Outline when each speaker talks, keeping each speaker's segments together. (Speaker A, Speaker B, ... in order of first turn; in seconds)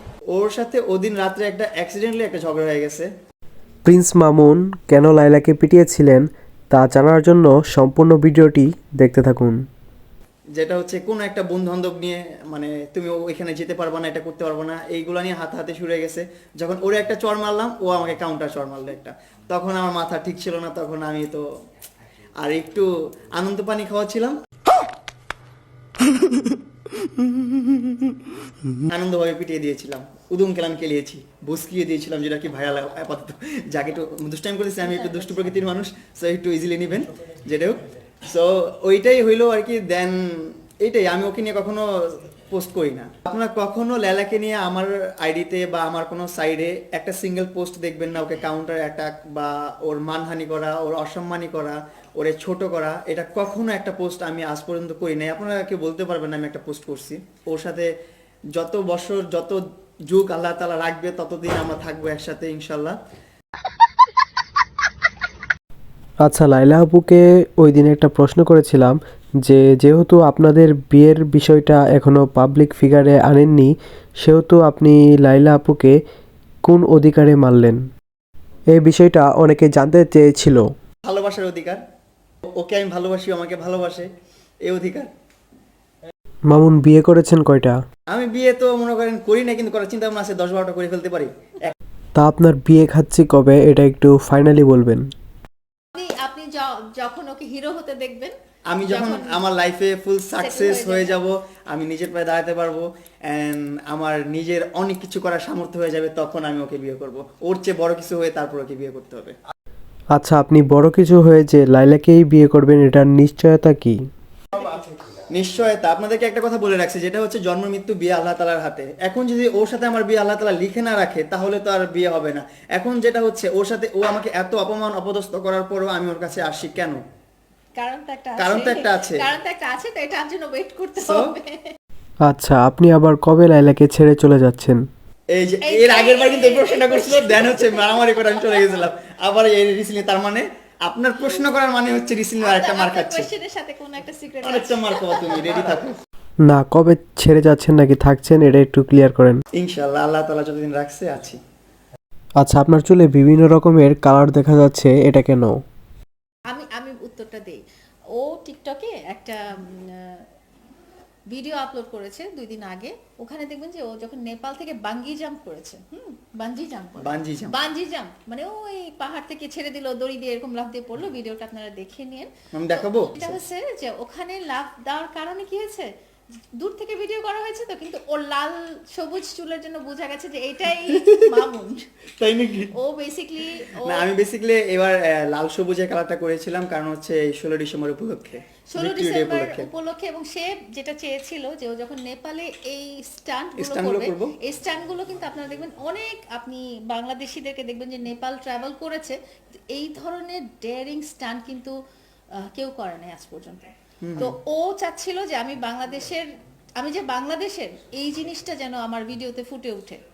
Speaker A: 0.3-3.1, 10.6-21.4, 22.4-24.4, 28.8-57.9, 58.5-63.0, 81.0-81.8, 82.6-84.1, 84.6-85.1, 88.1-91.7, 98.7-109.3, 115.3-127.0, 128.4-129.2, 131.0-131.3, 135.3-143.3, 144.4-145.9, 149.6-151.4, 167.0-167.5, 172.5-173.4, 180.7-181.5, 182.2-182.7, 183.8-189.7, 193.6-194.3, 204.0-204.3
Speaker B: 3.8-9.6, 66.2-76.0, 76.6-77.8, 78.7-80.7, 86.5-87.8, 92.2-95.0, 110.1-114.0, 132.2-134.8, 146.4-149.4, 152.4-155.6
Speaker C: 34.8-35.3, 95.9-99.4, 100.4-101.2, 127.8-131.7, 135.6-138.8, 142.4-145.7, 156.5-157.6, 158.1-160.2, 161.3-175.9, 176.6-181.9, 182.7-184.0, 188.7-199.2, 199.7-201.7, 202.5-206.3, 206.8-210.0